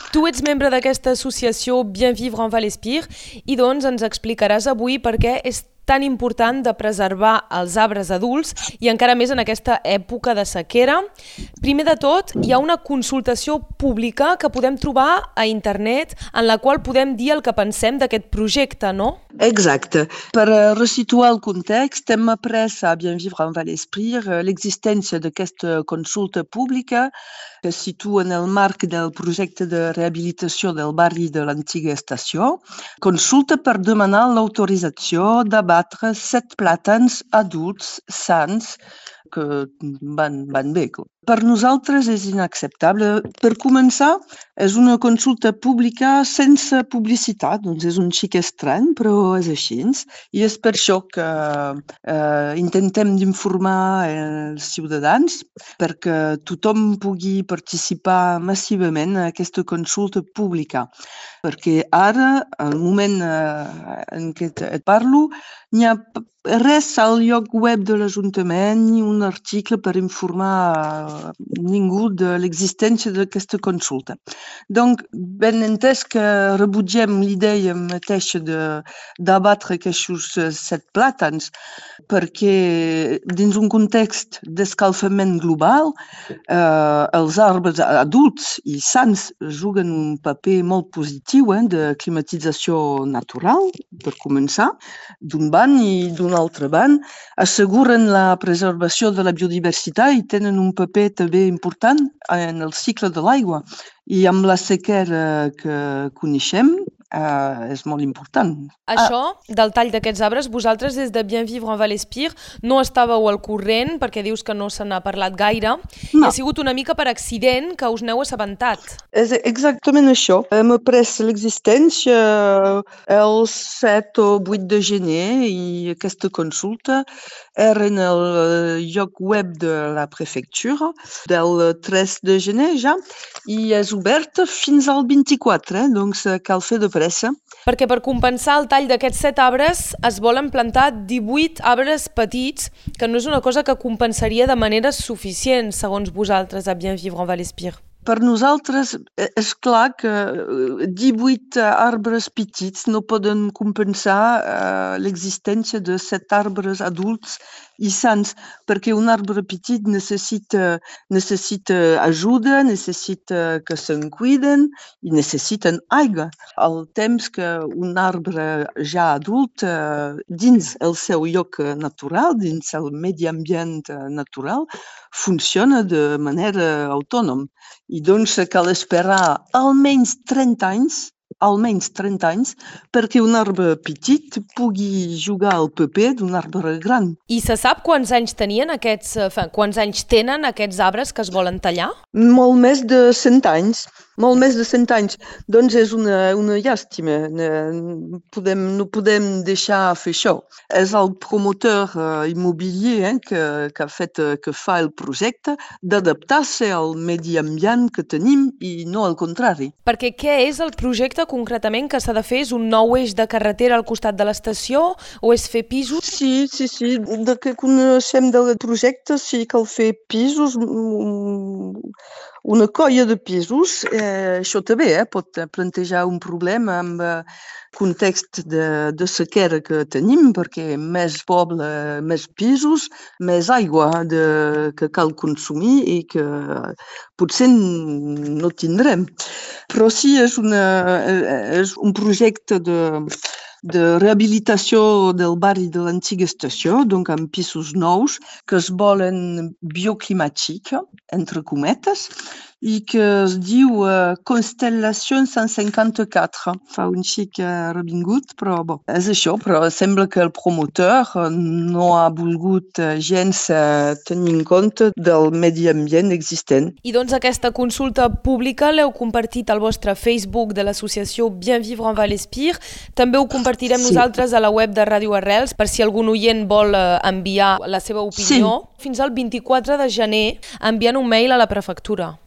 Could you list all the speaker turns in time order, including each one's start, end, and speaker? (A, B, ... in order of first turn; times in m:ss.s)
0:00.1-0:11.0 A
0:11.6-0:19.2 A
0:19.4-0:27.1 B
0:27.6-0:38.8 B
0:39.3-1:00.9 B
1:01.4-1:14.2 B
1:14.7-1:21.5 B
1:22.1-1:25.9 B
1:26.5-1:34.7 B
1:35.2-1:49.1 B
1:48.9-1:59.0 A
1:59.1-2:17.4 B
2:17.7-2:27.8 A
2:28.0-3:07.2 B
3:07.3-3:12.0 A
3:12.1-3:29.7 B
3:29.9-3:36.0 A
3:36.0-3:41.9 B
3:42.4-3:59.1 B
3:59.7-4:03.1 B
4:03.6-4:26.7 B
4:26.8-4:42.2 A
4:33.7-4:34.0 B
4:38.1-4:38.6 B